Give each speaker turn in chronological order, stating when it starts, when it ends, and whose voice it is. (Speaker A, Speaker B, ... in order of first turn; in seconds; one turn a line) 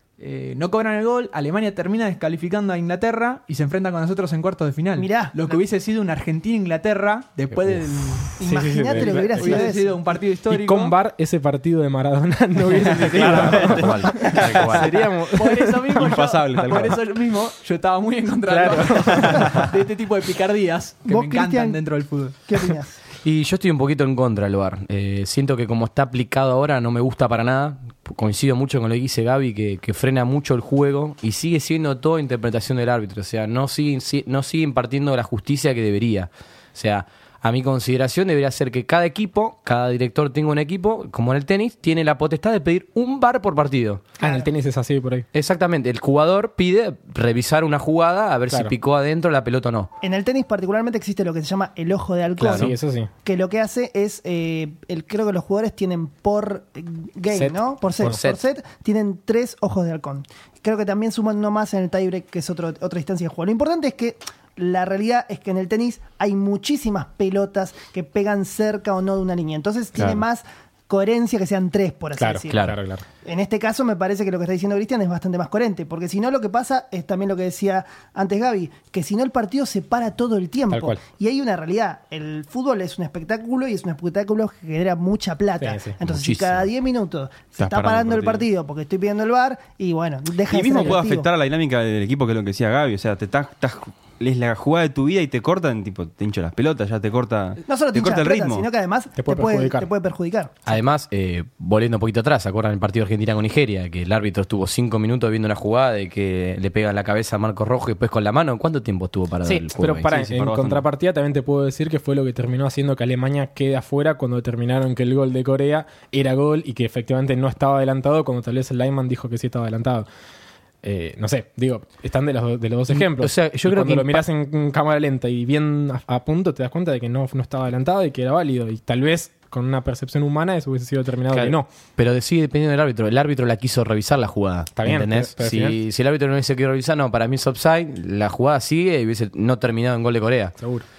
Speaker A: 0.2-10.9
Speaker B: 5.0-5.4
Speaker C: 7.5-9.6
Speaker B: 8.4-10.0
Speaker C: 10.5-16.9
Speaker D: 12.8-14.7
Speaker E: 13.0-14.9
Speaker A: 13.2-13.7
Speaker A: 15.3-22.4
Speaker D: 15.9-17.0
Speaker C: 18.5-19.6
Speaker B: 21.1-23.0
Speaker E: 23.2-44.0
Speaker B: 44.2-44.5
Speaker C: 44.2-45.3
Speaker E: 45.3-49.9
Speaker C: 48.5-48.7
Speaker B: 50.0-72.6
Speaker E: 52.4-52.7
Speaker C: 52.5-53.1
Speaker C: 57.3-58.2
Speaker E: 58.0-58.4
Speaker C: 72.2-73.0
Speaker E: 72.5-72.8
Speaker B: 73.2-91.3
Speaker C: 80.7-81.0
Speaker C: 85.6-86.0
Speaker E: 86.1-86.7
Speaker D: 87.6-88.5
Speaker D: 90.5-98.7
Speaker B: 97.6-100.5
Speaker C: 99.2-99.9
Speaker E: 100.7-110.2
Speaker C: 109.4-120.1
Speaker D: 110.1-110.8
Speaker C: 120.8-131.7
Speaker E: 122.9-124.3
Speaker E: 131.3-140.5
Speaker C: 134.7-135.8
Speaker C: 140.6-140.8